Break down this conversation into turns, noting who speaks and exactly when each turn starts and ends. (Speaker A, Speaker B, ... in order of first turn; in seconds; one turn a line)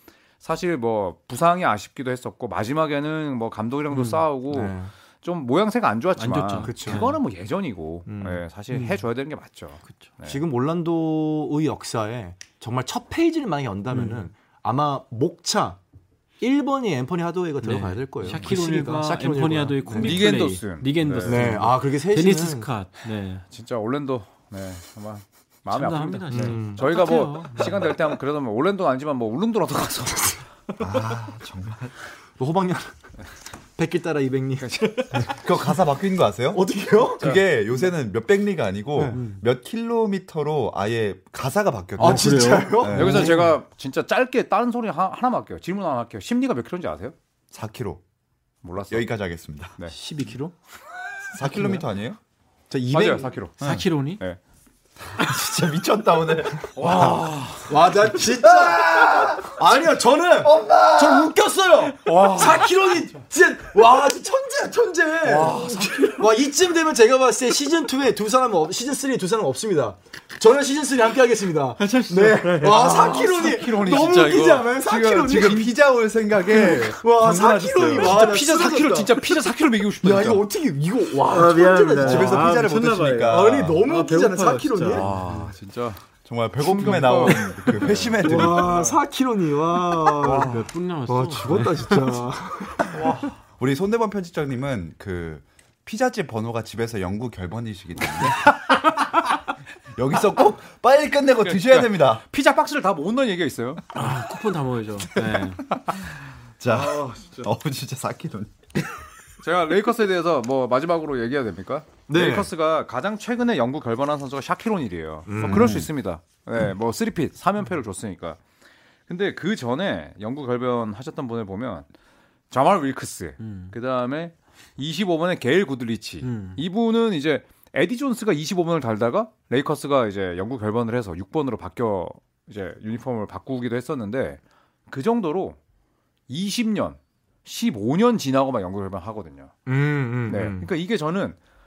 Speaker A: 0.4-10.4
Speaker B: 3.9-4.2
Speaker C: 4.5-4.9
Speaker B: 6.2-7.2
Speaker C: 6.6-7.1
Speaker C: 8.1-8.4
Speaker B: 8.7-9.0
Speaker C: 10.2-15.8
Speaker B: 13.9-14.3
Speaker C: 16.4-20.3
Speaker B: 17.6-23.4
Speaker A: 19.9-21.6
Speaker C: 21.2-22.7
Speaker A: 23.5-30.4
Speaker B: 25.7-27.8
Speaker C: 26.3-27.9
Speaker D: 30.8-31.9
Speaker C: 32.4-32.9
Speaker C: 33.8-35.7
Speaker A: 34.6-34.9
Speaker D: 35.2-43.4
Speaker C: 36.5-37.4
Speaker C: 38.9-39.2
Speaker B: 39.1-39.4
Speaker B: 42.0-43.3
Speaker C: 42.0-43.5
Speaker A: 42.9-47.1
Speaker D: 47.5-48.0
Speaker A: 48.6-49.1
Speaker D: 48.9-49.7
Speaker C: 49.9-50.5
Speaker D: 51.3-52.2
Speaker C: 51.4-51.8
Speaker C: 52.7-53.3
Speaker A: 52.9-54.4
Speaker B: 53.6-54.2
Speaker D: 55.1-57.1
Speaker A: 56.7-57.9
Speaker C: 56.8-75.7
Speaker D: 58.2-59.8
Speaker D: 60.4-61.3
Speaker A: 62.0-62.7
Speaker A: 65.2-66.1
Speaker D: 65.4-66.1
Speaker B: 71.8-73.0
Speaker A: 72.6-75.6
Speaker D: 74.8-78.2
Speaker C: 76.5-79.3
Speaker A: 77.8-80.4
Speaker C: 80.0-82.6
Speaker B: 81.3-85.4
Speaker D: 82.0-83.8
Speaker C: 83.2-85.4
Speaker A: 84.9-86.0
Speaker D: 86.2-89.0
Speaker A: 86.6-88.8
Speaker C: 88.2-93.2
Speaker B: 90.1-92.2
Speaker D: 92.9-98.6
Speaker D: 99.9-102.2
Speaker A: 101.4-103.8
Speaker B: 103.9-105.6
Speaker D: 106.6-108.7
Speaker A: 106.7-107.5
Speaker A: 109.4-118.4
Speaker C: 112.1-112.5
Speaker C: 115.2-115.9
Speaker D: 115.4-115.9
Speaker A: 119.1-121.9
Speaker A: 122.5-135.6
Speaker B: 123.4-123.7
Speaker B: 126.2-126.6
Speaker A: 136.3-139.5
Speaker C: 139.7-140.7
Speaker A: 140.2-141.4